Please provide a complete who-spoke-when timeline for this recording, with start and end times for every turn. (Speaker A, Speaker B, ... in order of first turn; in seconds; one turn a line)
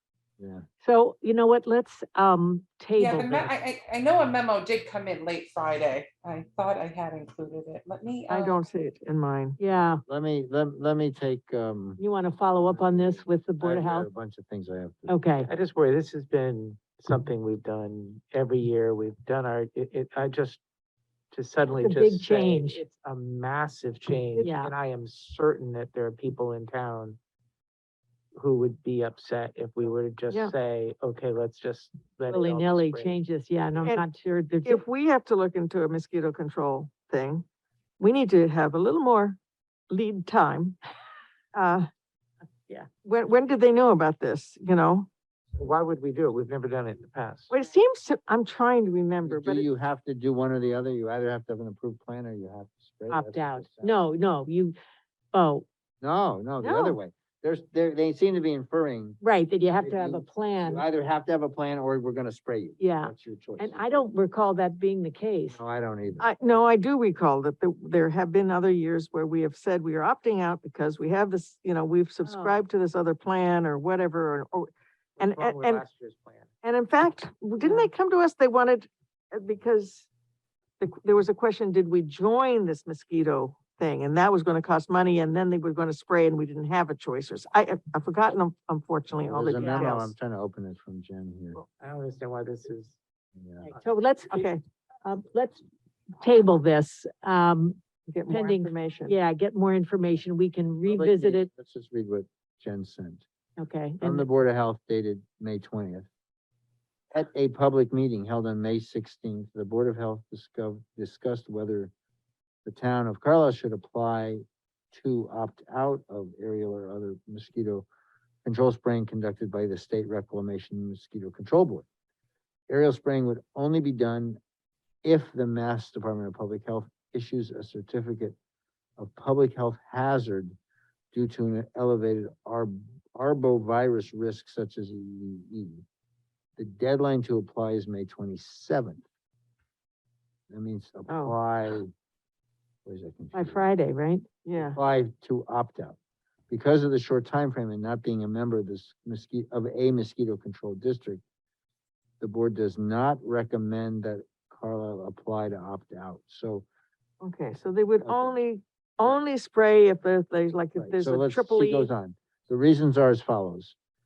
Speaker A: 0.4-0.7
Speaker B: 0.8-3.5
Speaker C: 3.0-8.6
Speaker D: 8.3-9.6
Speaker B: 9.6-10.0
Speaker A: 10.1-12.0
Speaker B: 12.0-14.1
Speaker A: 12.7-15.2
Speaker B: 15.1-15.5
Speaker E: 15.4-20.6
Speaker E: 21.3-27.2
Speaker B: 21.8-22.8
Speaker B: 24.4-24.7
Speaker E: 28.4-33.2
Speaker B: 32.3-34.8
Speaker D: 34.6-37.5
Speaker D: 38.0-39.4
Speaker D: 39.9-40.8
Speaker D: 41.5-41.9
Speaker D: 43.0-45.1
Speaker E: 45.6-47.5
Speaker D: 47.5-49.7
Speaker A: 49.2-54.0
Speaker B: 53.1-54.8
Speaker B: 55.3-55.7
Speaker A: 56.0-59.2
Speaker D: 56.6-57.0
Speaker B: 59.2-60.9
Speaker A: 59.8-64.0
Speaker B: 62.8-65.6
Speaker A: 65.5-66.3
Speaker D: 66.2-75.8
Speaker B: 72.2-72.6
Speaker E: 75.2-76.5
Speaker D: 76.6-80.1
Speaker B: 77.6-77.9
Speaker D: 80.8-90.1
Speaker A: 89.3-91.6
Speaker B: 89.6-90.0
Speaker E: 91.6-93.0
Speaker A: 93.3-93.7
Speaker B: 93.7-94.5
Speaker D: 94.3-94.6
Speaker B: 95.0-95.6
Speaker B: 96.2-97.8
Speaker D: 98.1-99.2
Speaker B: 98.3-101.5
Speaker A: 100.9-103.2
Speaker B: 103.6-104.3
Speaker A: 104.0-106.1
Speaker A: 107.1-111.9
Speaker A: 112.7-117.9
Speaker A: 118.4-121.9
Speaker A: 122.7-124.4
Speaker A: 125.0-128.3
Speaker A: 129.0-130.6
Speaker A: 131.1-135.8
Speaker A: 136.6-139.0
Speaker A: 140.5-141.9
Speaker D: 141.1-141.4
Speaker A: 142.8-143.7
Speaker B: 143.3-144.2
Speaker D: 144.4-144.8
Speaker A: 144.6-146.0
Speaker A: 146.5-151.2
Speaker A: 152.2-156.7
Speaker D: 157.2-161.9
Speaker A: 158.0-158.4
Speaker A: 160.8-163.8